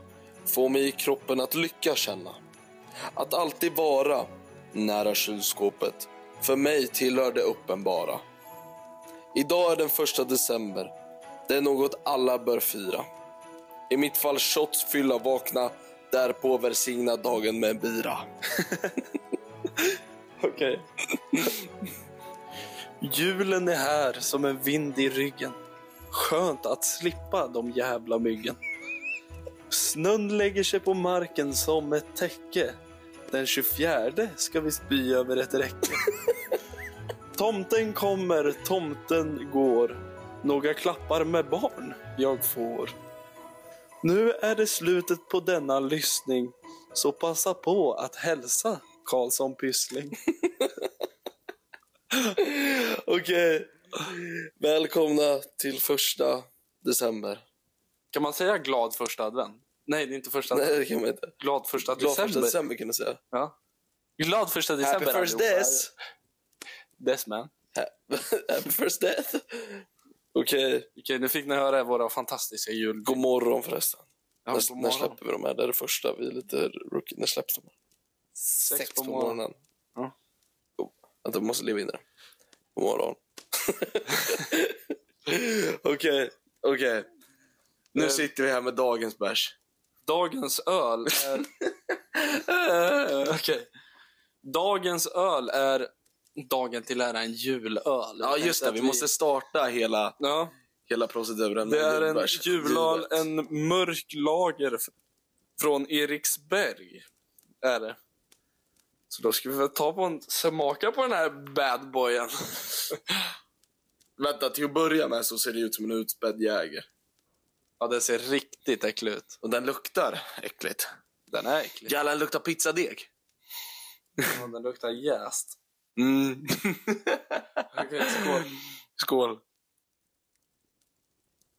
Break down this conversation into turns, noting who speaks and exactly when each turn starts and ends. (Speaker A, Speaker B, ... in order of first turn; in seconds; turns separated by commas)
Speaker A: 0.5-2.4, Speaker A: 3.1-8.2, Speaker A: 9.3-10.9, Speaker A: 11.5-13.1, Speaker A: 13.9-18.3, Speaker B: 19.8-21.5, Speaker B: 23.0-25.6, Speaker B: 26.1-28.6, Speaker B: 29.7-32.8, Speaker B: 33.3-36.0, Speaker B: 37.4-42.9, Speaker B: 44.0-50.2, Speaker A: 50.4-50.9, Speaker A: 52.1-57.4, Speaker B: 58.1-60.8, Speaker A: 60.5-63.2, Speaker B: 61.4-62.6, Speaker B: 64.2-65.9, Speaker A: 64.8-65.9, Speaker B: 67.0-67.5, Speaker A: 67.7-70.9, Speaker B: 71.0-73.2, Speaker A: 73.1-77.7, Speaker B: 74.5-75.2, Speaker B: 78.5-79.4, Speaker A: 78.6-79.6, Speaker A: 80.8-82.0, Speaker A: 82.8-87.1, Speaker A: 87.9-89.6, Speaker B: 88.0-88.3, Speaker B: 90.1-91.5, Speaker A: 92.2-93.3, Speaker B: 93.2-93.7, Speaker B: 94.4-99.1, Speaker A: 98.2-100.2, Speaker B: 100.2-100.5, Speaker A: 100.9-103.3, Speaker B: 101.6-104.9, Speaker B: 105.6-107.1, Speaker B: 107.6-108.0, Speaker B: 109.1-113.0, Speaker A: 114.2-116.9, Speaker B: 117.8-119.3, Speaker A: 119.4-120.9, Speaker B: 121.3-121.9, Speaker A: 121.9-123.1, Speaker B: 124.3-125.6, Speaker A: 126.0-127.4, Speaker B: 127.7-128.5, Speaker A: 129.0-129.4